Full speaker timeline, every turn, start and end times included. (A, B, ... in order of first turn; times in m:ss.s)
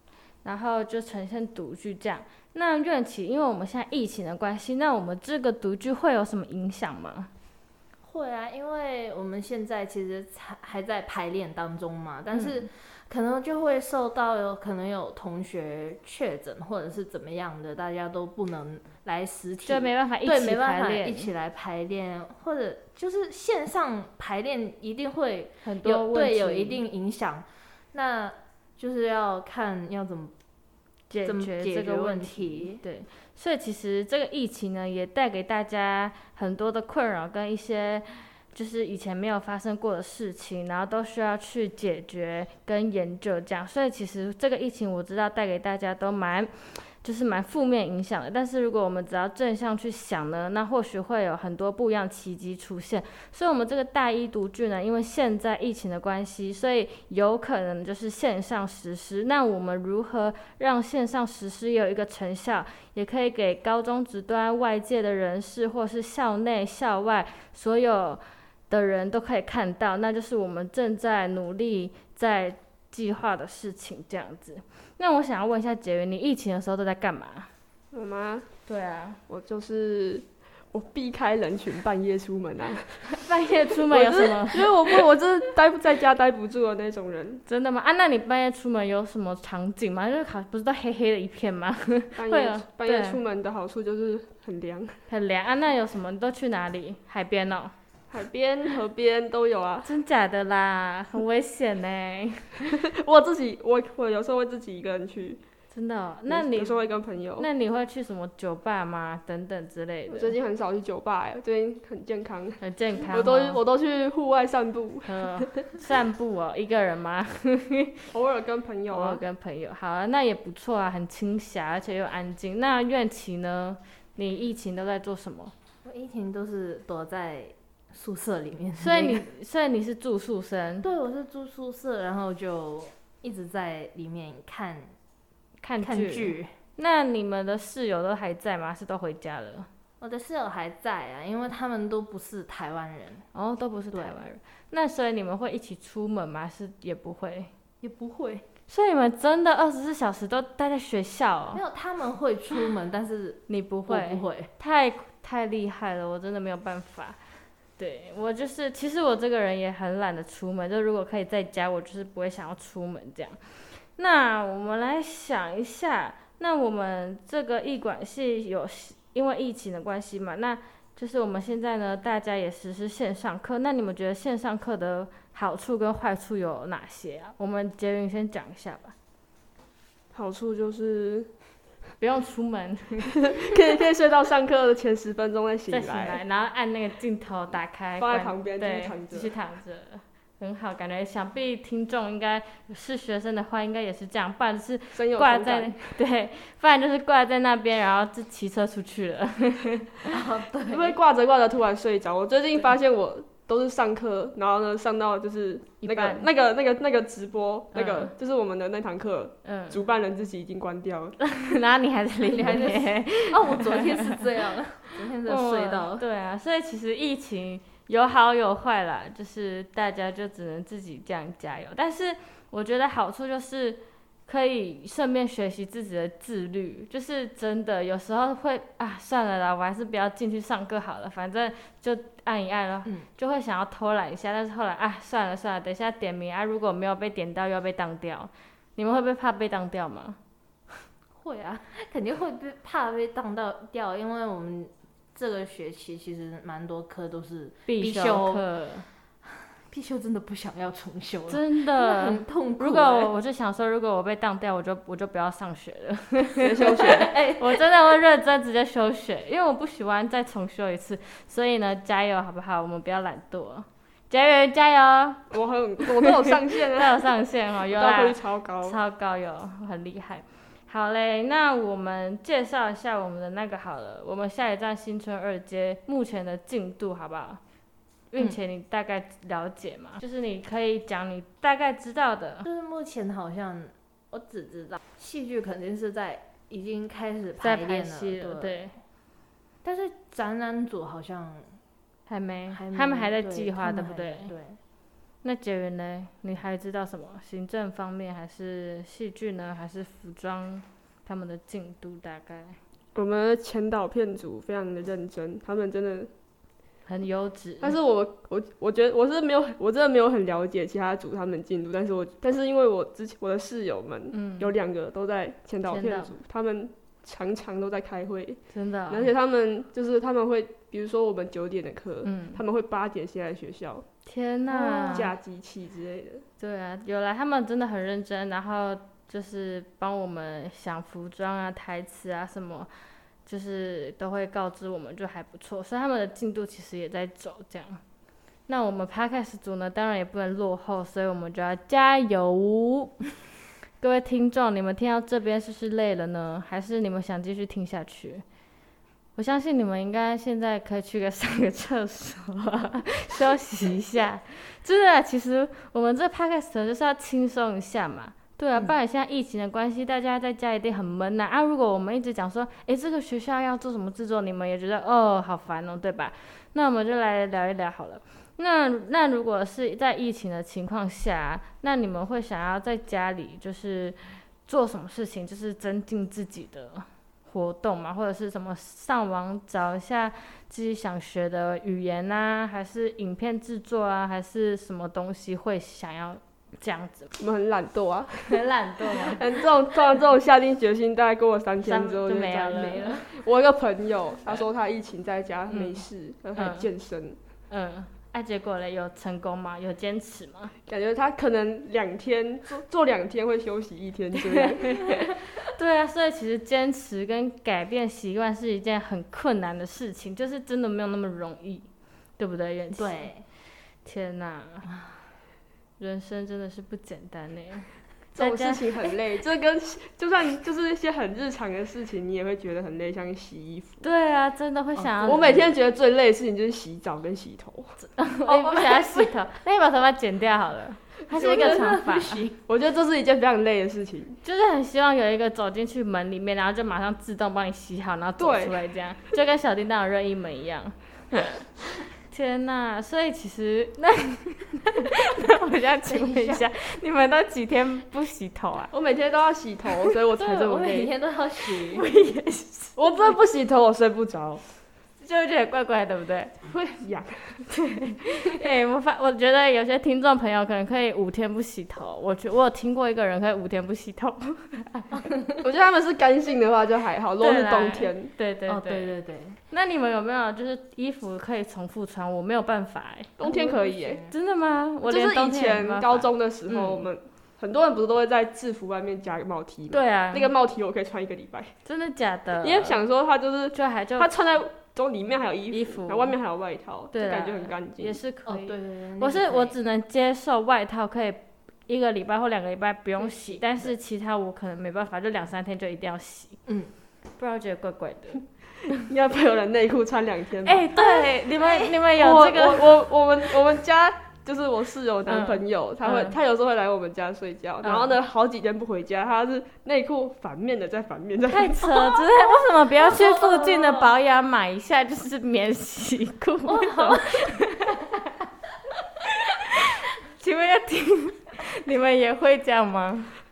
0:00.4-0:07.3 A
0:08.0-0:30.3 B
0:12.3-0:12.6 A
0:19.6-0:21.3 A
0:25.6-0:26.8 A
0:31.1-1:17.5 A
0:31.2-0:32.8 B
1:17.9-1:18.5 C
1:18.6-1:19.2 A
1:19.3-1:23.2 C
1:23.1-1:25.0 A
1:23.9-1:27.4 C
1:27.4-1:33.2 A
1:32.2-1:35.0 C
1:35.1-1:37.7 A
1:38.1-1:39.9 C
1:39.8-1:42.7 A
1:42.6-1:45.4 C
1:45.7-1:46.8 A
1:46.2-1:47.5 C
1:47.4-1:50.4 A
1:50.1-1:55.6 C
1:52.6-1:53.6 A
1:55.0-1:57.9 A
1:58.1-1:59.2 C
1:58.9-2:05.5 A
2:05.8-2:09.3 B
2:08.8-2:10.8 A
2:10.8-2:14.9 B
2:15.6-2:19.7 A
2:15.8-2:16.5 B
2:20.0-2:23.3 B
2:23.3-2:27.5 A
2:23.9-2:24.2 B
2:27.8-2:28.4 B
2:28.7-2:31.6 A
2:31.5-2:34.5 B
2:33.5-2:37.2 A
2:37.8-2:43.4 A
2:44.0-2:58.9 A
3:00.1-3:01.3 C
3:02.0-3:03.1 A
3:03.2-3:06.2 C
3:05.7-3:20.1 A
3:08.0-3:09.3 C
3:14.9-3:16.0 C
3:20.1-3:21.0 B
3:20.7-3:31.2 C
3:25.8-3:26.3 A
3:27.7-3:28.1 A
3:29.4-3:29.8 A
3:31.2-3:34.2 A
3:32.3-3:36.0 B
3:35.3-4:00.2 A
4:01.1-4:08.4 B
4:07.6-4:08.8 A
4:09.2-4:13.1 B
4:11.3-4:25.3 A
4:16.4-4:17.1 C
4:16.6-4:17.6 B
4:25.3-4:27.1 C
4:25.9-4:37.4 A
4:27.6-4:28.8 C
4:38.1-4:42.5 A
4:42.4-4:48.7 B
4:47.4-4:48.8 A
4:49.6-4:51.6 B
4:52.1-4:54.3 A
4:52.5-4:54.6 B
4:55.2-5:02.6 A
5:02.9-5:06.1 C
5:06.8-5:07.8 A
5:07.6-5:23.8 C
5:14.1-5:14.5 A
5:15.6-5:16.1 A
5:18.5-5:19.1 A
5:22.0-5:22.4 A
5:24.0-5:25.2 A
5:24.5-5:26.2 C
5:26.4-5:32.7 A
5:33.2-5:37.8 A
5:38.5-5:43.1 A
5:43.8-5:48.2 A
5:49.2-6:27.1 A
6:27.2-6:28.4 C
6:28.3-6:29.2 A
6:29.0-6:37.2 C
6:31.6-6:33.1 A
6:32.6-6:33.0 B
6:35.5-6:35.8 A
6:36.4-6:36.7 A
6:37.5-6:40.5 A
6:40.7-6:45.1 C
6:44.7-6:51.7 A
6:52.2-6:53.1 A
6:52.7-6:53.2 B
6:53.8-6:54.7 A
6:55.8-6:58.6 A
6:58.2-7:03.8 C
7:03.8-7:05.5 A
7:04.7-7:05.5 B
7:05.0-7:07.7 C
7:07.8-7:12.2 A
7:08.3-7:09.1 B
7:11.1-7:12.4 B
7:11.2-7:11.7 C
7:12.4-7:14.2 C
7:14.2-7:28.7 A
7:18.2-7:18.6 C
7:25.8-7:26.4 B
7:28.7-7:30.9 C
7:30.1-7:30.8 A
7:30.5-7:31.8 B
7:31.7-7:33.1 A
7:32.8-7:34.4 C
7:35.0-7:36.3 A
7:36.5-7:37.5 C
7:37.5-7:45.1 A
7:45.0-7:45.3 B
7:45.4-7:48.1 C
7:47.2-7:49.0 A
7:48.5-7:49.4 B
7:49.5-7:56.9 A
7:53.2-7:54.0 C
7:53.2-7:54.1 B
7:54.8-8:01.5 C
7:59.7-8:00.3 A
8:01.6-8:02.8 A
8:02.4-8:08.0 C
8:03.5-8:04.1 A
8:05.5-8:06.2 A
8:06.9-8:16.4 A
8:08.2-8:09.6 B
8:13.0-8:13.7 B
8:16.4-8:16.7 B
8:17.2-8:18.7 A
8:18.9-8:20.6 C
8:20.4-8:22.7 A
8:20.8-8:21.7 B
8:22.0-8:32.0 C
8:25.1-8:26.2 A
8:27.6-8:28.0 A
8:31.3-8:38.0 A
8:32.8-8:33.9 B
8:36.4-8:37.4 B
8:39.2-8:39.5 A
8:40.0-8:43.2 A